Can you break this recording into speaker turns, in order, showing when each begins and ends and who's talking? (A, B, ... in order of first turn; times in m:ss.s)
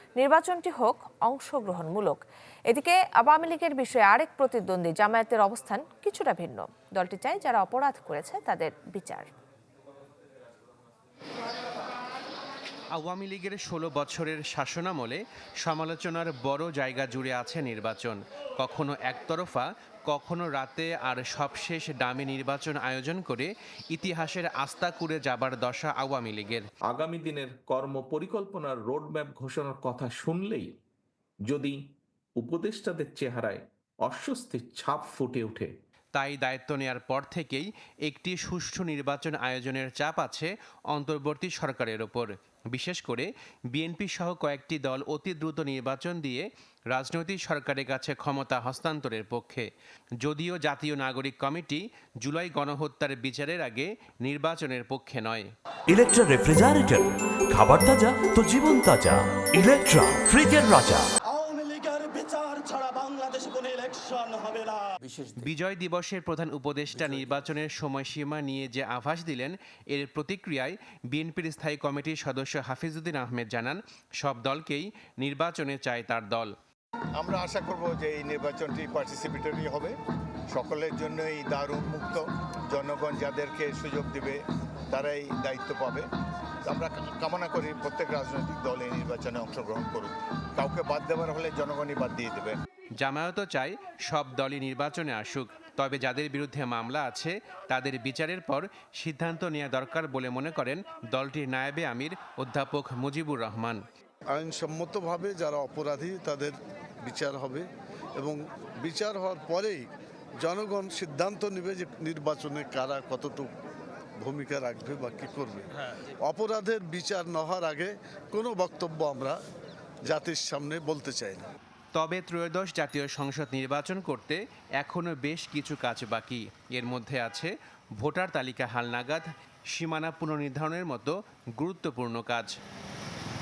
0:00.2-0:09.3 A
0:12.9-0:26.7 B
0:26.9-0:30.7 C
0:31.4-0:31.8 C
0:32.4-0:35.7 C
0:36.2-0:49.7 B
0:50.2-0:55.5 B
0:55.9-1:01.1 D
1:01.3-1:04.9 E
1:05.4-1:16.5 B
1:17.2-1:19.9 F
1:20.5-1:24.4 F
1:24.9-1:26.1 F
1:26.6-1:32.6 F
1:33.0-1:43.8 B
1:44.3-1:46.5 G
1:47.0-1:47.6 G
1:48.2-1:49.9 G
1:50.4-1:53.5 G
1:54.2-1:59.4 G
2:00.1-2:01.5 G
2:02.0-2:12.5 B